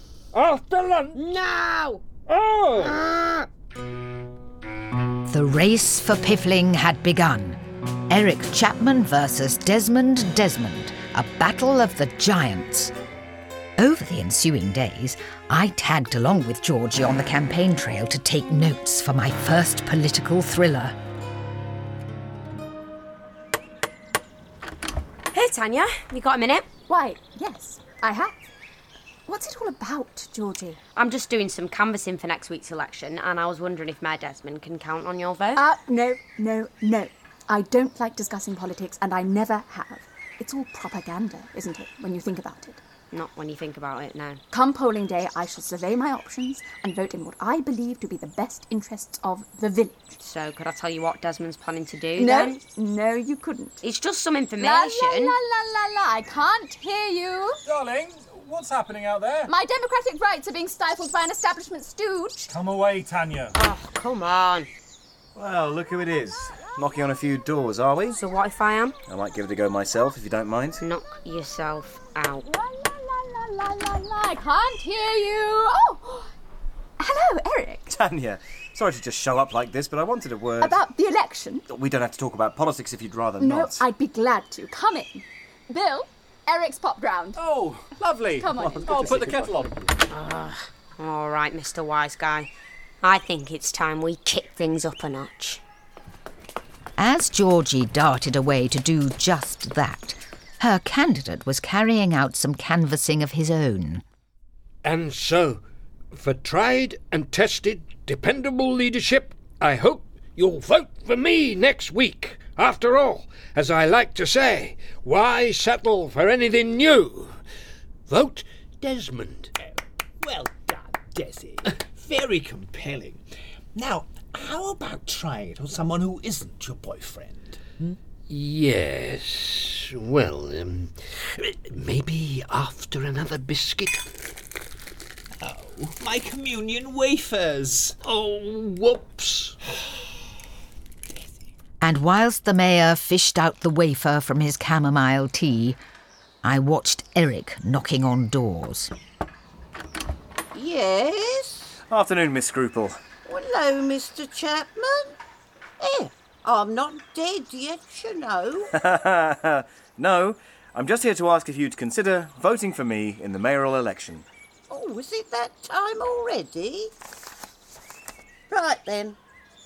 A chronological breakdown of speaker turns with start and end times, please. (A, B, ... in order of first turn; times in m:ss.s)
0:00.3-0:01.2 A
0:01.1-0:02.0 B
0:02.3-0:03.0 A
0:02.7-0:03.5 B
0:05.3-0:12.9 C
0:13.8-0:21.0 C
0:25.3-0:26.7 B
0:26.9-0:28.3 D
0:29.3-0:30.8 D
0:30.9-0:35.6 B
0:35.6-0:42.8 D
0:43.1-0:44.4 B
0:44.5-0:50.2 D
0:50.2-0:52.6 B
0:52.2-0:53.8 D
0:53.8-0:55.3 B
0:54.6-0:57.6 D
0:57.6-0:59.5 E
0:59.5-1:02.5 D
1:02.5-1:03.6 E
1:03.5-1:04.7 B
1:05.4-1:08.2 F
1:08.1-1:09.0 B
1:09.1-1:10.8 F
1:10.8-1:12.4 B
1:12.4-1:16.3 D
1:17.0-1:18.0 D
1:17.9-1:20.8 F
1:20.6-1:21.6 D
1:21.7-1:23.8 F
1:23.4-1:27.4 D
1:27.3-1:29.8 E
1:28.3-1:29.4 D
1:30.1-1:32.5 B
1:33.0-1:35.6 B
1:37.0-1:44.0 C
1:44.8-1:57.4 A
1:58.1-1:59.5 A
2:00.2-2:03.2 G
2:03.7-2:07.9 G
2:08.3-2:14.1 A
2:15.4-2:18.0 G
2:18.0-2:19.6 A
2:21.8-2:25.8 C
2:26.4-2:28.9 C
2:30.5-2:31.8 H
2:31.9-2:33.0 F
2:33.2-2:35.2 H
2:35.8-2:38.7 H
2:38.7-2:44.2 F
2:44.7-2:46.9 H
2:48.5-2:49.2 H